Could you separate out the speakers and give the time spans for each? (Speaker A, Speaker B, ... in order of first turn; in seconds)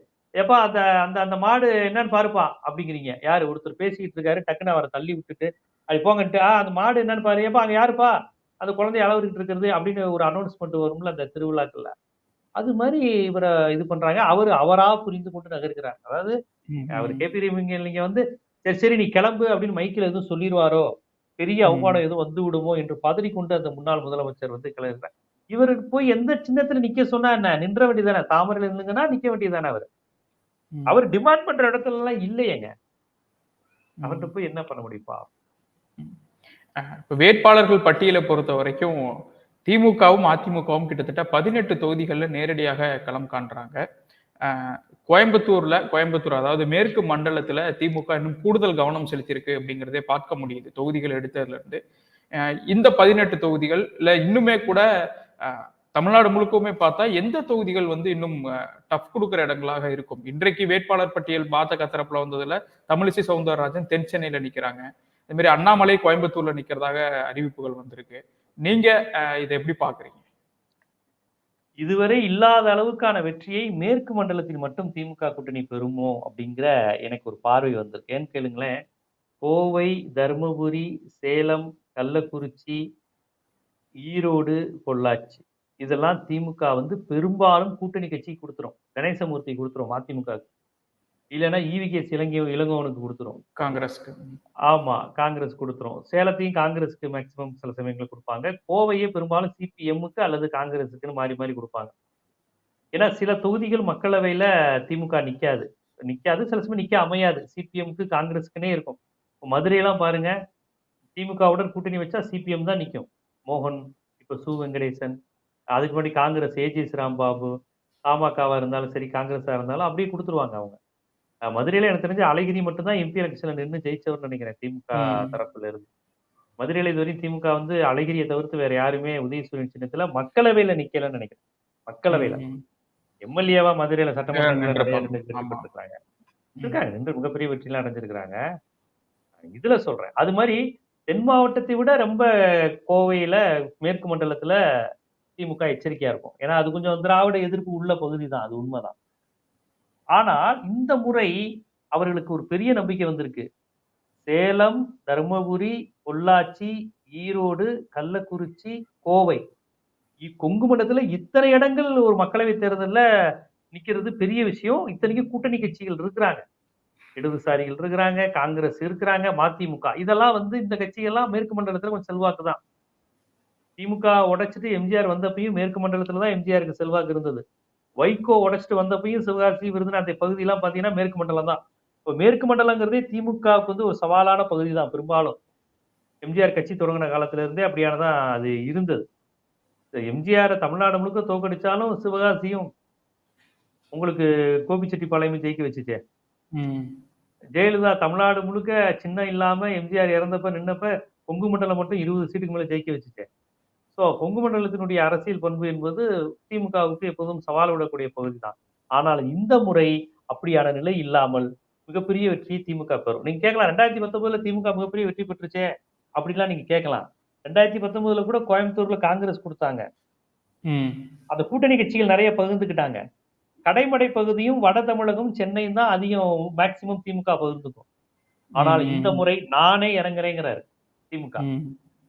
Speaker A: 0.4-11.9, 12.6-16.4, 17.0-20.9, 21.4-29.9, 30.9-32.7, 34.0-35.3, 71.8-78.7, 79.4-82.8, 84.1-90.4, 91.3-93.4, 94.7-101.9, 103.0-110.3, 111.2-115.2, 115.8-117.5, 118.1-120.8, 121.5-125.8, 126.6-132.4, 133.2-135.9, 136.6-138.4, 139.4-140.6, 141.1-142.2, 142.9-144.6, 145.4-148.9, 150.2-151.3, 152.0-153.5, 154.3-159.4, 160.2-163.0, 163.7-166.4, 167.2-172.6, 173.8-177.4, 178.0-181.6, 182.1-185.3, 186.3-189.0, 190.1-192.7, 193.9-196.0, 197.6-203.3, 204.0-215.6, 216.2-219.9, 221.3-223.0, 223.7-227.9, 228.6-230.6, 231.1-231.4
Speaker B: 16.7-17.2, 21.7-22.0, 34.0-34.3, 36.8-39.0, 39.7-43.8, 44.5-51.8, 52.7-54.8, 55.4-58.4, 58.9-70.2, 93.6-94.4, 125.0-125.3, 132.1-132.6, 134.3-135.6, 196.6-196.9, 220.7-221.1, 228.6-229.2, 231.4-231.8